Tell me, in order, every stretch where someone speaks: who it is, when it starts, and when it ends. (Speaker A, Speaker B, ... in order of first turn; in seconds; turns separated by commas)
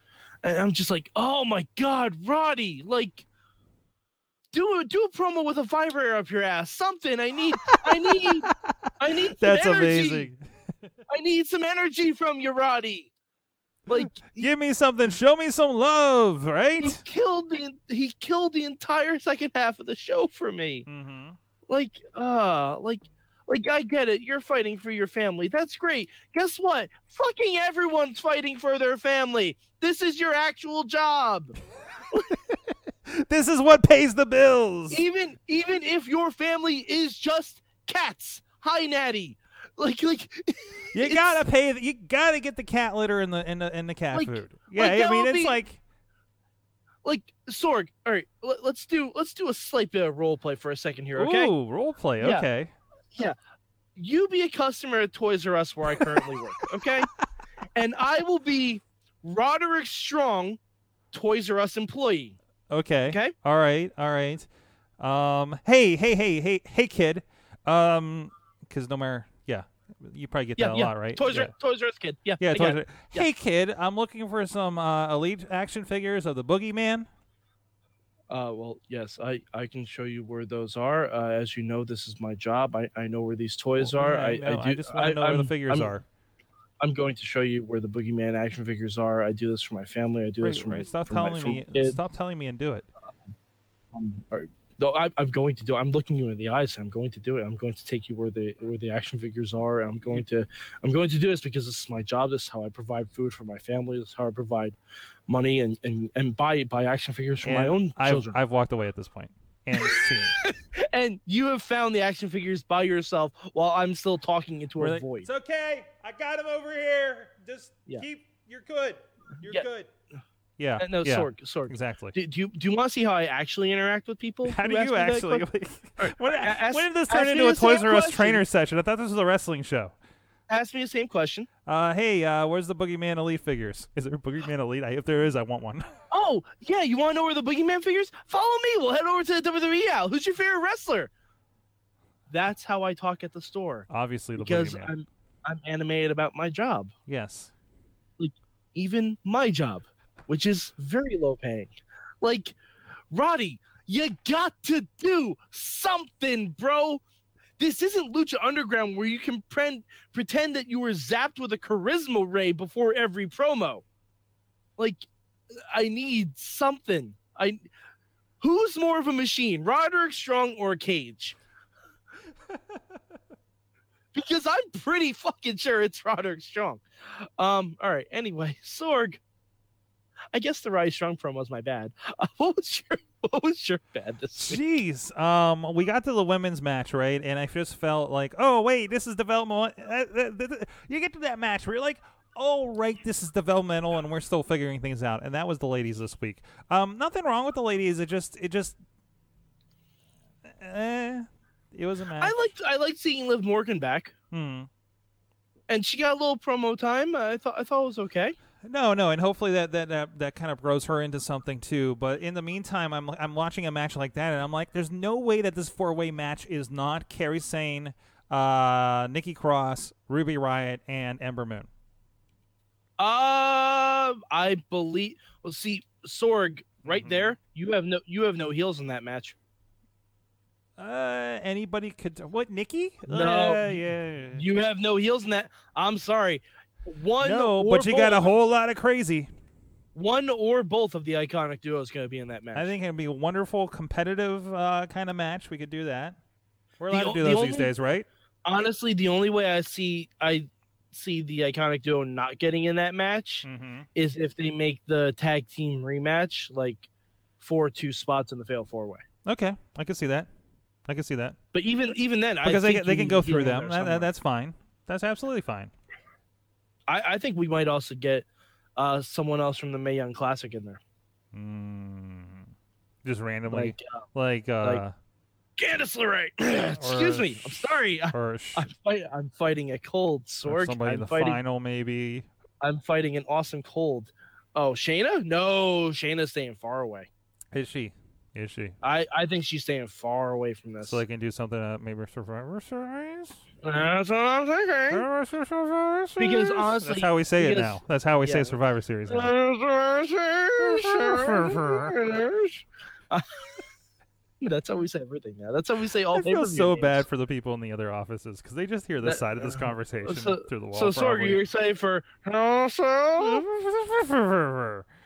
Speaker A: 0.4-3.3, Speaker A: 4.5-8.5, Speaker B: 7.7-8.6, Speaker A: 9.0-10.3, Speaker B: 9.4-10.4, Speaker A: 11.1-13.1, Speaker A: 13.9-14.5, Speaker B: 13.9-17.0, Speaker A: 16.8-20.9, Speaker B: 20.9-21.4, Speaker A: 21.7-31.6, Speaker B: 33.1-35.0, Speaker A: 34.9-41.4, Speaker B: 40.9-45.8, Speaker A: 44.1-45.6, Speaker A: 47.0-51.5, Speaker B: 51.1-52.7, Speaker A: 52.2-52.5, Speaker A: 54.0-57.1, Speaker B: 55.9-57.1, Speaker A: 57.8-60.6, Speaker A: 61.1-62.4, Speaker B: 62.7-64.5, Speaker B: 65.0-71.5, Speaker A: 70.6-73.3, Speaker B: 72.4-77.1, Speaker A: 78.3-86.0, Speaker B: 83.8-86.0, Speaker A: 86.8-92.0, Speaker B: 90.4-92.9, Speaker A: 93.9-104.8, Speaker A: 105.3-108.4, Speaker B: 107.4-110.3, Speaker A: 109.7-115.3, Speaker B: 114.8-119.9, Speaker B: 120.6-122.2, Speaker A: 120.8-125.5, Speaker B: 124.4-129.9, Speaker A: 126.0-128.4, Speaker A: 130.5-131.5, Speaker B: 131.7-135.9, Speaker A: 136.1-141.1, Speaker A: 142.3-146.9, Speaker B: 143.9-144.9, Speaker B: 147.1-147.5, Speaker A: 148.2-152.6, Speaker A: 153.1-157.0, Speaker A: 157.6-163.8, Speaker A: 165.7-167.6, Speaker A: 168.4-171.4, Speaker A: 174.1-176.8, Speaker A: 177.4-179.2, Speaker A: 180.3-184.6, Speaker B: 184.4-198.8, Speaker B: 200.5-202.4, Speaker A: 202.2-204.1, Speaker B: 204.3-204.7, Speaker A: 205.7-208.4, Speaker B: 208.6-221.7, Speaker A: 223.0-229.4, Speaker B: 226.8-227.4, Speaker B: 230.8-234.4, Speaker A: 233.1-238.3, Speaker B: 237.2-239.3, Speaker A: 239.9-242.7, Speaker B: 242.5-246.2, Speaker B: 246.8-248.1, Speaker A: 246.9-247.7, Speaker A: 248.4-256.9, Speaker B: 253.4-253.9, Speaker A: 257.4-259.0, Speaker B: 259.3-260.3, Speaker B: 260.9-261.4, Speaker A: 261.5-264.1, Speaker B: 262.4-265.7, Speaker A: 266.9-270.8, Speaker B: 271.3-272.5, Speaker B: 273.1-274.9, Speaker A: 273.5-274.0, Speaker A: 275.6-281.4, Speaker B: 276.8-277.5, Speaker B: 278.1-278.7, Speaker B: 280.4-282.3, Speaker A: 282.6-287.1, Speaker B: 287.5-288.8, Speaker A: 288.8-291.0, Speaker B: 290.8-293.4, Speaker A: 293.6-295.1, Speaker B: 294.9-299.3, Speaker A: 296.2-298.6, Speaker A: 299.1-303.6, Speaker B: 300.6-302.0, Speaker A: 304.4-307.0, Speaker B: 306.1-311.4, Speaker A: 309.0-313.4, Speaker B: 313.2-314.9